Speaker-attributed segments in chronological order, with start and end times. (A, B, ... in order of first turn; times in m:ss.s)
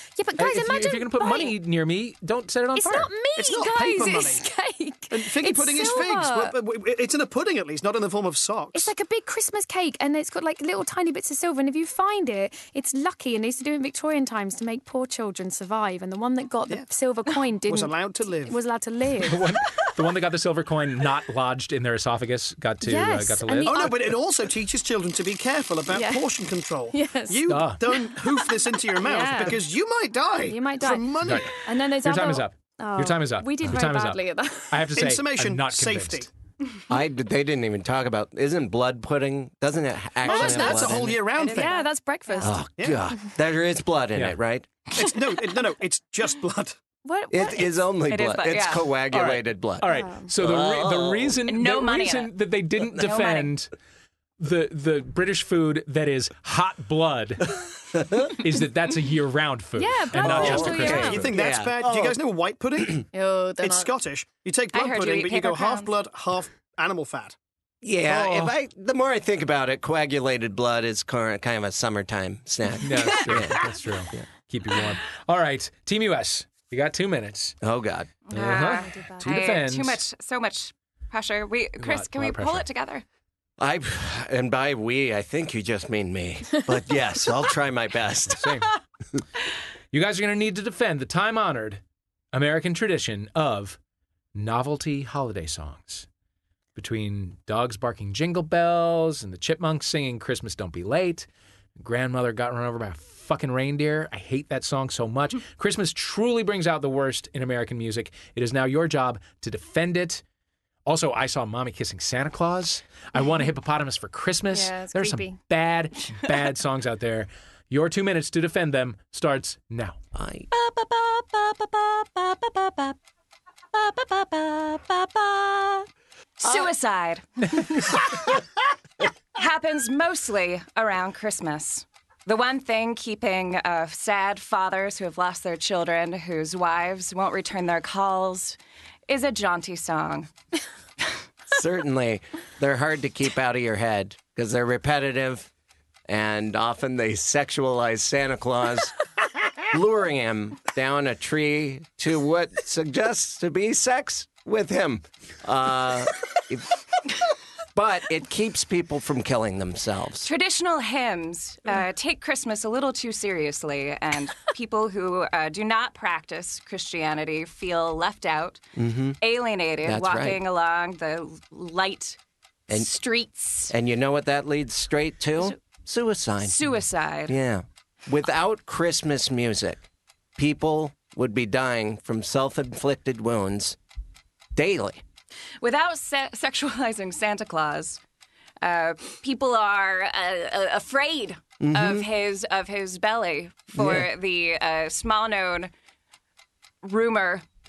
0:00.2-0:01.6 A
0:00.4-0:03.1 B
0:02.7-0:06.5 A
0:03.3-0:04.4 C
0:05.1-0:08.9 C
0:08.7-0:19.4 A
0:17.6-0:18.6 C
0:19.2-0:24.1 B
0:22.8-0:24.0 A
0:23.6-0:31.6 C
0:25.9-0:26.3 A
0:26.9-0:29.7 A
0:27.5-0:27.8 B
0:30.4-0:34.8 A
0:31.2-0:31.5 B
0:32.0-0:36.3 B
0:34.9-0:36.3 C
0:36.9-0:41.2 D
0:40.2-0:41.8 C
0:40.2-0:42.7 A
0:41.4-0:41.9 E
0:42.4-0:44.7 D
0:42.7-0:43.0 C
0:44.9-0:46.8 C
0:47.0-0:47.9 A
0:47.3-0:51.4 D
0:48.1-0:48.9 E
0:49.1-0:53.7 B
0:49.8-0:50.3 A
0:51.5-0:52.3 E
0:52.9-0:53.5 E
0:54.4-0:57.6 B
0:58.0-0:58.3 D
0:58.2-1:01.3 B
0:59.8-1:01.4 A
1:00.2-1:02.2 D
1:00.4-1:07.4 C
1:03.1-1:03.9 A
1:04.7-1:05.9 E
1:07.8-1:14.2 D
1:08.0-1:08.5 B
1:12.8-1:17.6 B
1:17.6-1:18.1 D
1:18.3-1:20.0 B
1:18.3-1:23.0 E
1:18.7-1:19.4 A
1:21.8-1:22.7 B
1:23.6-1:28.6 D
1:28.3-1:28.7 B
1:29.9-1:31.8 B
1:32.3-1:33.8 B
1:34.3-1:36.1 B
1:36.8-1:41.3 B
1:41.8-1:50.2 B
1:50.8-2:00.0 B
1:54.5-1:55.4 A
2:00.1-2:00.5 D
2:00.5-2:02.9 E
2:03.7-2:05.8 E
2:06.4-2:08.3 E
2:09.3-2:18.6 E
2:19.1-2:20.3 E
2:21.5-2:25.5 D
2:26.1-2:28.9 D
2:29.6-2:36.7 D
2:37.7-2:40.3 D
2:40.2-2:48.6 E
2:48.8-2:49.2 D
2:49.2-2:52.2 E
2:49.8-2:50.4 D
2:52.7-2:53.7 E
2:53.7-2:59.8 D
2:56.4-2:57.4 E
3:00.4-3:03.8 D
3:04.5-3:05.0 D
3:05.6-3:08.0 E
3:08.6-3:15.7 E
3:11.6-3:12.0 D
3:13.7-3:14.1 D
3:16.8-3:17.4 E